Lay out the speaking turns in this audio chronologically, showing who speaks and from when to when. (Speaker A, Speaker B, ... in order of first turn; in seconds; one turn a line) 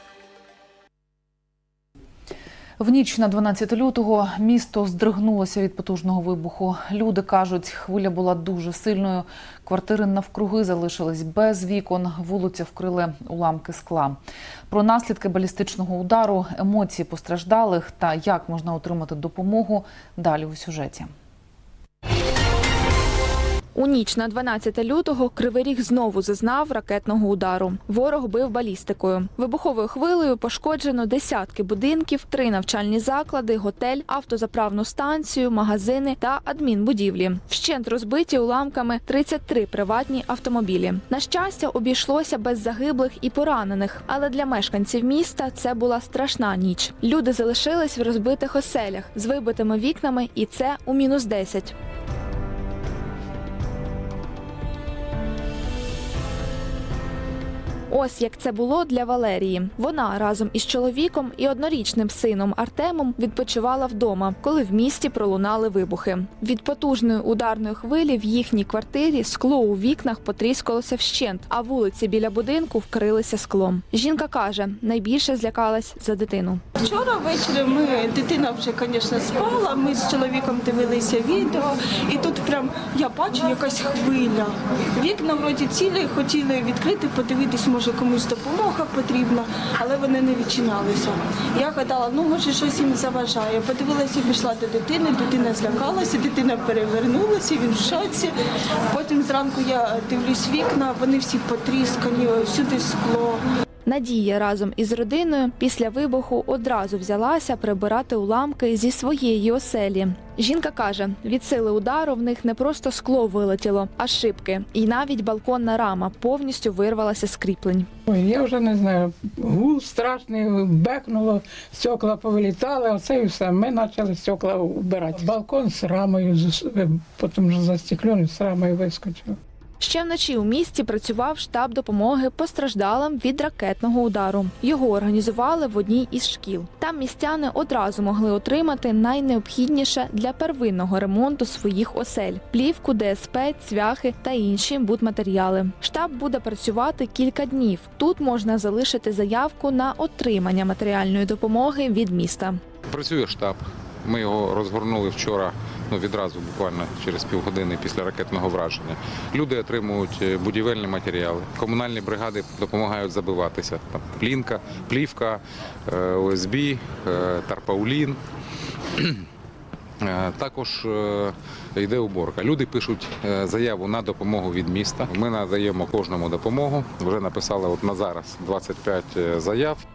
Speaker A: 2.8-14.2
Speaker A: 14.7-21.1
Speaker B: 23.7-51.7
Speaker B: 57.9-76.6
Speaker C: 76.8-98.3
Speaker C: 98.9-103.4
Speaker B: 103.8-117.9
Speaker D: 118.1-129.3
Speaker B: 129.8-152.6
Speaker E: 152.9-168.2
Speaker E: 168.9-169.2
Speaker E: 170.0-179.8